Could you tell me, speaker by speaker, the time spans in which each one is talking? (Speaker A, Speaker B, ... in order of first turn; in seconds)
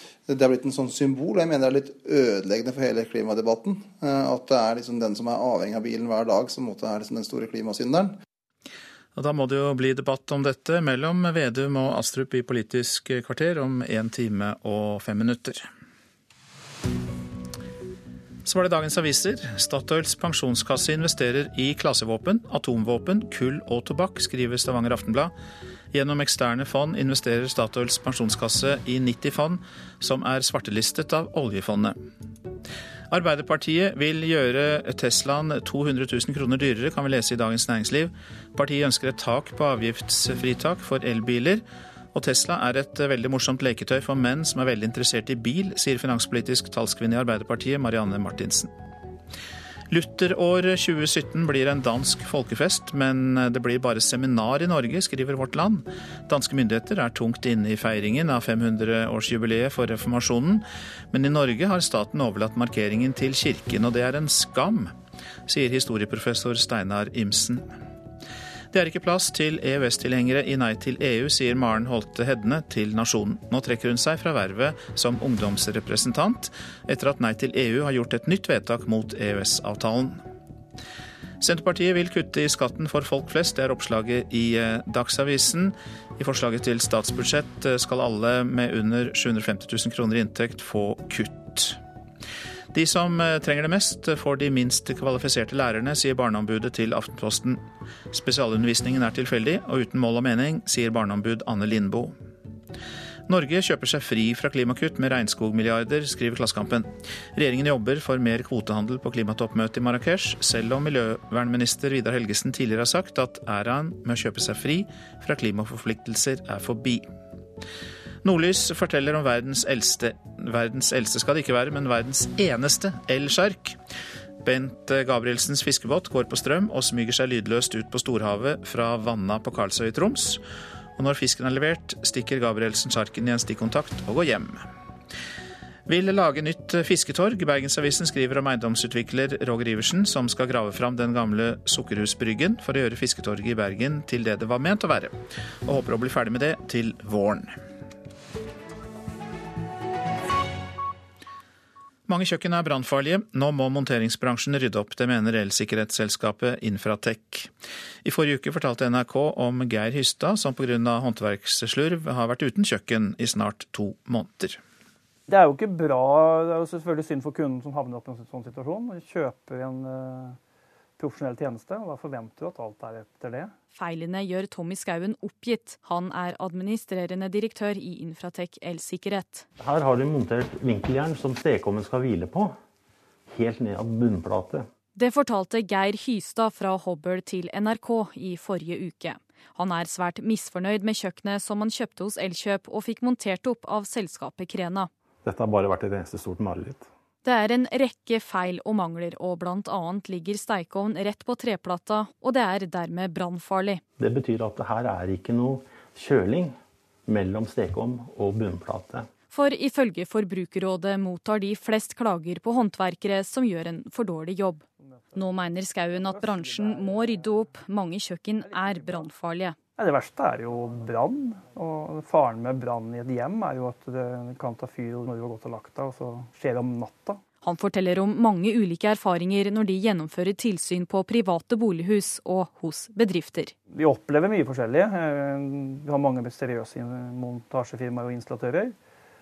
Speaker A: 0.3-8.1
Speaker B: 9.2-15.7, 18.4-25.3, 25.9-32.0, 33.1-48.7, 49.9-64.9, 65.5-67.8, 68.7-80.2, 81.4-91.8, 92.7-102.2, 103.3-117.1, 118.2-123.8, 124.4-130.4, 131.0-134.7, 135.9-147.6, 152.1-157.5, 158.0-164.6
Speaker C: 165.3-170.4, 171.0-173.5, 214.8-215.3, 215.9-217.5, 218.4-219.1, 219.8-227.2, 233.7-238.8
Speaker D: 173.8-179.5, 185.0-194.9, 197.2-203.8, 209.3-214.6, 215.2-219.6, 227.4-233.5
Speaker E: 179.6-182.6, 183.3-184.7, 195.3-196.8, 204.0-206.6, 207.1-209.1